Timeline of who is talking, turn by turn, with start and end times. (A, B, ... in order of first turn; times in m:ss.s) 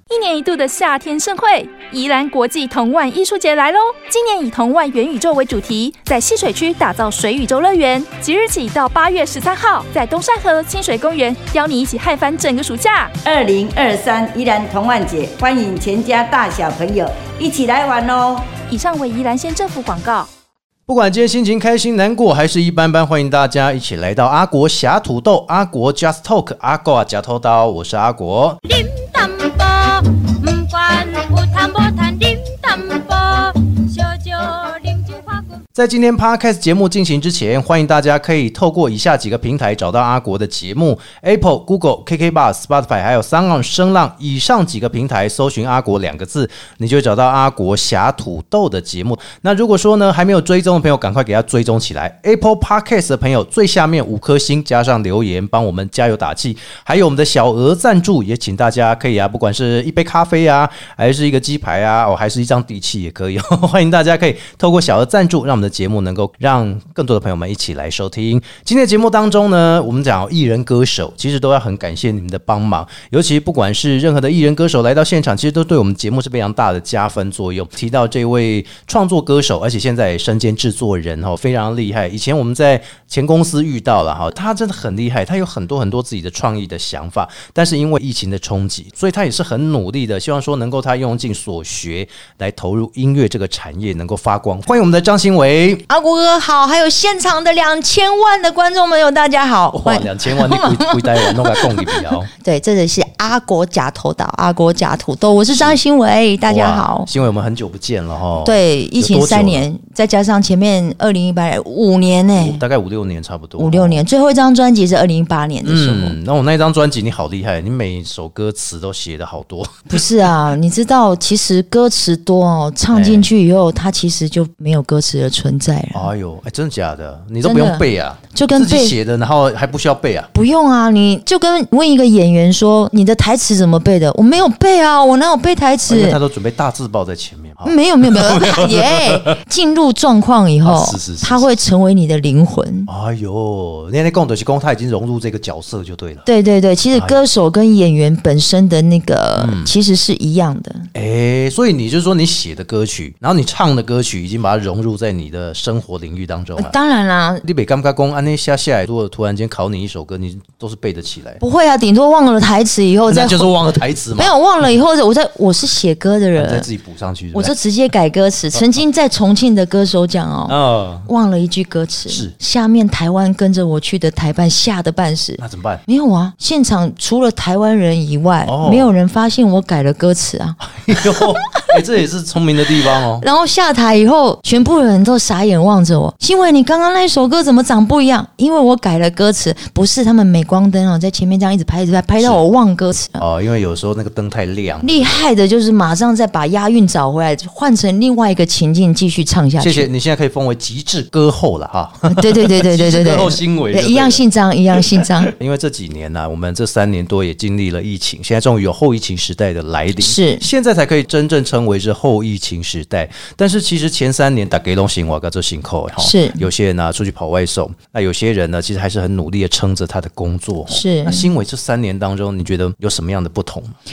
0:00.1-0:13.1 A
0:13.2-0:18.5 B
0:18.7-0:20.3 A
0:20.9-0:28.6 C
0:28.6-0:35.6 D
0:35.8-1:35.8 C
1:35.9-1:47.1 E
1:39.7-1:42.3 C
1:45.5-1:45.8 C
1:46.5-1:49.7 C
1:48.4-1:52.6 E
1:52.4-1:54.0 C
1:53.6-1:56.2 E
1:55.6-1:59.9 C
1:59.9-2:06.1 E
2:02.9-2:03.3 C
2:05.9-2:10.3 C
2:07.4-2:09.0 E
2:10.3-2:16.2 E
2:15.9-2:19.3 C
2:17.6-2:22.9 E
2:20.6-2:21.5 C
2:22.9-2:26.2 C
2:26.2-2:30.9 E
2:26.9-2:27.2 C
2:29.4-2:29.7 C
2:30.9-2:36.8 C
2:36.6-2:37.4 E
2:37.4-2:41.4 C
2:41.4-2:43.6 E
2:43.1-2:44.3 C
2:44.2-2:46.7 E
2:46.4-2:47.5 C
2:47.3-3:01.7 E
2:48.5-2:48.8 C
2:50.5-2:51.1 C
2:55.4-2:55.8 C
2:58.4-2:58.9 C
3:00.6-3:03.2 C
3:03.2-3:13.2 E
3:13.2-3:15.2 C
3:14.8-3:19.9 E
3:19.6-3:24.2 C
3:22.1-3:25.3 E
3:24.8-3:43.8 C
3:30.0-3:30.4 E
3:36.0-3:36.4 E
3:40.7-3:41.3 E